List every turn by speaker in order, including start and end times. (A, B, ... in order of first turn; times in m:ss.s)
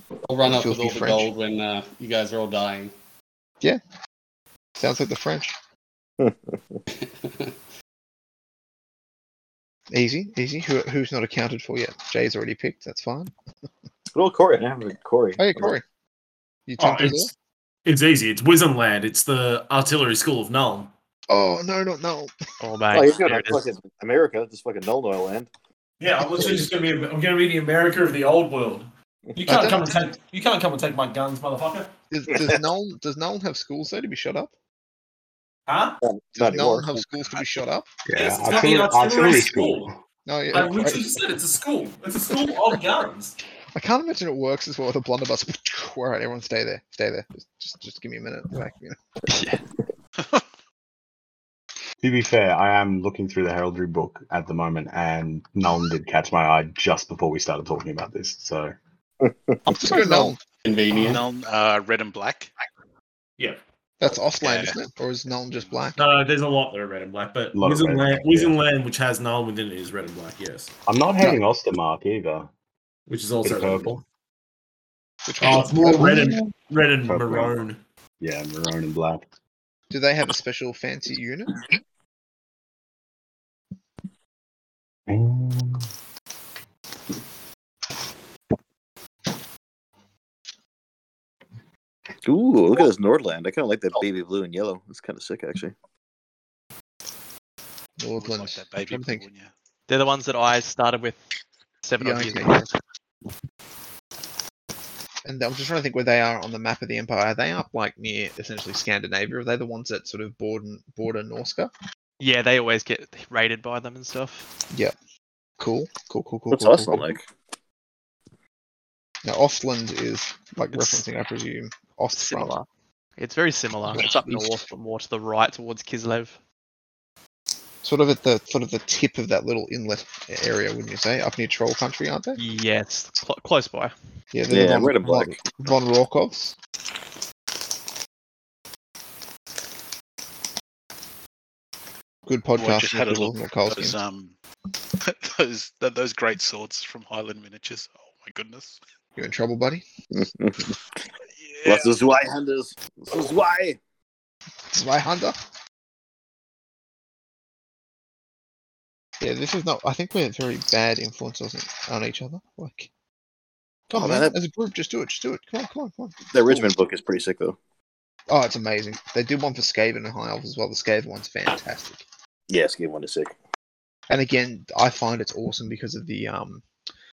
0:00.2-0:02.9 A
0:00.4-0:01.3 B
0:04.8-0:05.5 B
0:06.2-0:06.8 C
0:07.0-0:07.5 A
0:09.9-0:13.3 B
0:14.1-0:15.8 C
0:15.4-0:15.8 B
0:16.7-0:17.3 B
0:16.8-0:17.3 D
0:17.8-0:20.9 D
0:21.3-0:22.3 B
0:22.6-0:23.7 E
0:22.9-0:25.5 C
0:26.0-0:31.9 D
0:26.3-0:26.6 C
0:29.4-0:29.9 B
0:32.1-0:34.5 B
0:35.7-0:36.0 D
0:36.0-0:37.0 C
0:36.4-0:37.9 B
0:38.0-0:40.0 F
0:38.1-0:39.9 D
0:40.2-0:41.2 B
0:40.5-0:43.3 D
0:43.7-0:49.0 B
0:49.3-0:49.6 E
0:52.0-0:58.7 F
0:59.2-0:59.6 C
0:59.7-1:00.4 B
1:00.6-1:01.2 A
1:00.9-1:02.5 G
1:04.0-1:06.0 B
1:04.4-1:04.7 G
1:06.0-1:10.7 D
1:07.5-1:08.6 F
1:10.8-1:12.5 F
1:13.1-1:14.0 D
1:13.4-1:14.0 F
1:15.2-1:16.4 B
1:15.4-1:17.8 D
1:15.9-1:16.2 F
1:17.0-1:17.6 F
1:18.2-1:19.2 F
1:19.9-1:21.6 B
1:25.1-1:25.9 F
1:32.2-1:35.7 C
1:38.0-1:39.2 B
1:38.2-1:39.5 G
1:39.9-1:41.2 E
1:41.8-1:42.7 E
1:42.0-1:42.7 B
1:45.2-1:51.7 B
1:52.2-1:54.5 E
1:55.6-1:57.1 B
1:56.5-1:57.3 C
1:59.2-2:02.5 B
2:00.7-2:01.0 E
2:02.1-2:02.6 E
2:03.2-2:06.4 E
2:03.9-2:04.6 B
2:07.8-2:12.4 B
2:12.4-2:13.9 E
2:14.3-2:16.6 B
2:14.5-2:15.4 C
2:22.2-2:24.0 B
2:22.6-2:24.3 G
2:25.0-2:28.8 G
2:29.2-2:29.8 B
2:30.1-2:30.8 C
2:31.4-2:32.0 G
2:31.6-2:33.8 C
2:34.7-2:35.4 B
2:39.2-2:42.9 B
2:43.9-2:46.7 B
2:43.9-2:44.3 C
2:46.3-2:47.6 C
2:48.3-2:52.0 B
2:52.5-2:53.3 C
2:54.1-2:56.6 B